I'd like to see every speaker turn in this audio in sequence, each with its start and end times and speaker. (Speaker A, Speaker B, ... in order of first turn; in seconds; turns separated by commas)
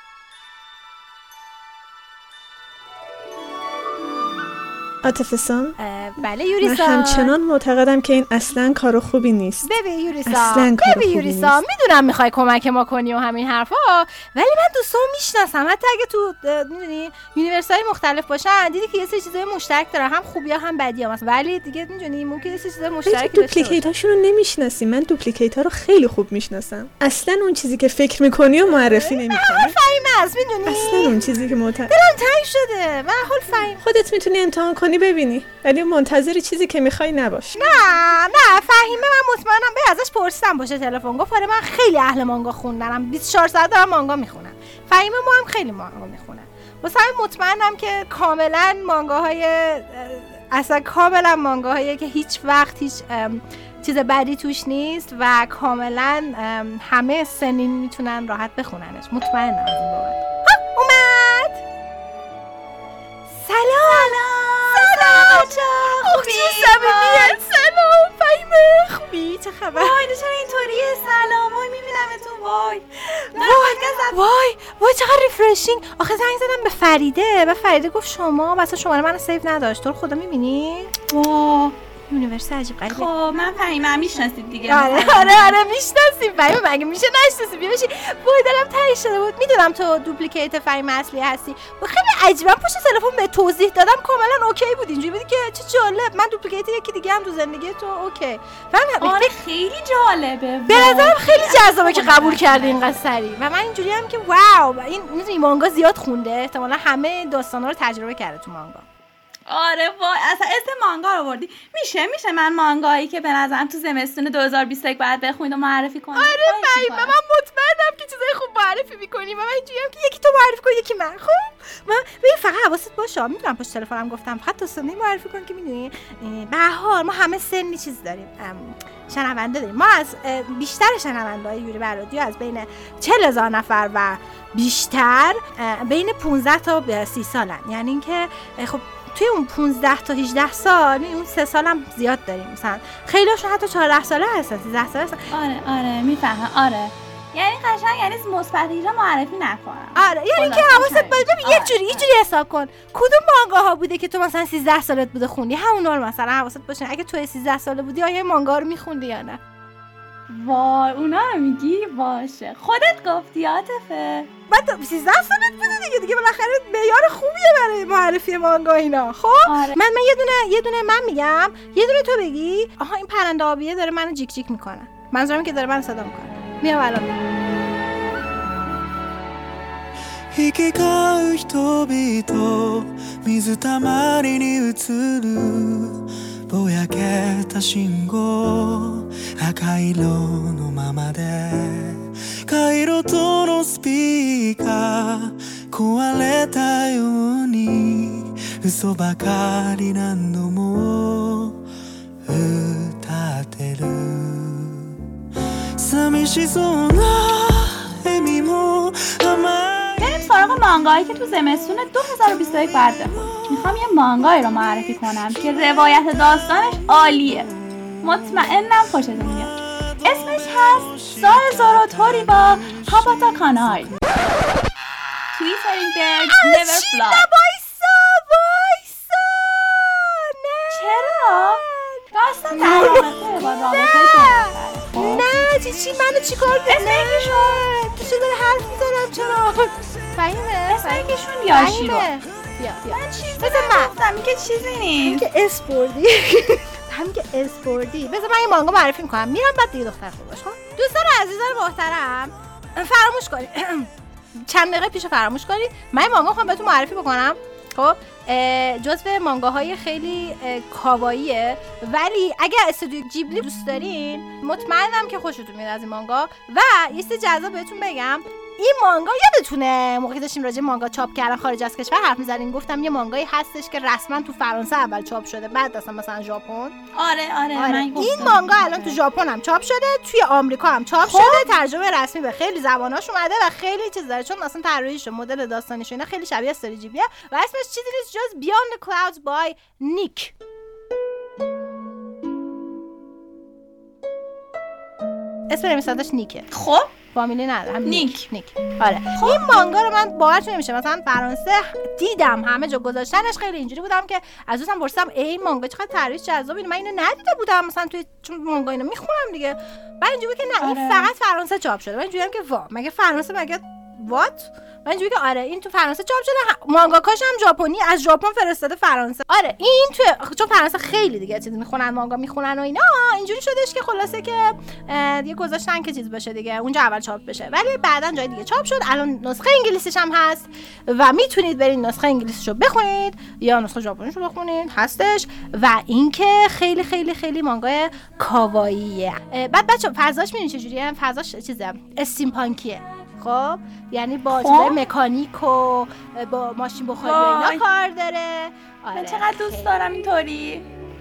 Speaker A: 5.0-5.8, Speaker B: 5.8-7.3, Speaker A: 6.6-9.7, Speaker B: 9.6-23.8, Speaker A: 10.3-11.6, Speaker A: 23.1-29.8, Speaker B: 28.8-31.2, Speaker A: 30.7-31.9, Speaker B: 31.9-33.8, Speaker A: 33.8-37.8, Speaker B: 37.5-61.6, Speaker B: 63.3-64.2, Speaker C: 63.8-67.4, Speaker B: 64.7-70.0, Speaker C: 69.7-74.2, Speaker B: 73.3-81.0, Speaker C: 81.1-81.8, Speaker B: 82.1-83.1, Speaker C: 82.8-85.6, Speaker B: 84.7-99.3, Speaker C: 99.0-102.8, Speaker B: 100.7-108.9, Speaker C: 109.5-117.2, Speaker B: 116.1-145.2, Speaker C: 145.3-152.1, Speaker B: 149.9-159.4, Speaker C: 160.3-164.3, Speaker B: 164.5-177.2, Speaker C: 169.4-169.8, Speaker D: 180.3-201.6, Speaker D: 202.3-204.8, Speaker D: 205.8-210.3, Speaker C: 210.0-217.5, Speaker C: 218.0-219.5, Speaker C: 220.1-223.9, Speaker D: 220.1-223.8, Speaker C: 225.3-227.3, Speaker B: 226.3-243.9, Speaker C: 230.7-231.6, Speaker C: 232.1-235.3, Speaker C: 236.7-237.7, Speaker C: 240.7-242.1, Speaker C: 242.9-245.3, Speaker B: 245.0-253.9, Speaker B: 254.4-276.8, Speaker C: 276.9-278.9, Speaker B: 277.5-290.3, Speaker C: 281.0-281.5, Speaker B: 295.5-296.5, Speaker C: 296.5-296.9, Speaker B: 297.1-349.7, Speaker C: 297.8-298.3, Speaker C: 299.2-299.5, Speaker C: 310.6-311.1, Speaker C: 344.3-344.8, Speaker C: 347.0-347.6, Speaker C: 348.9-350.7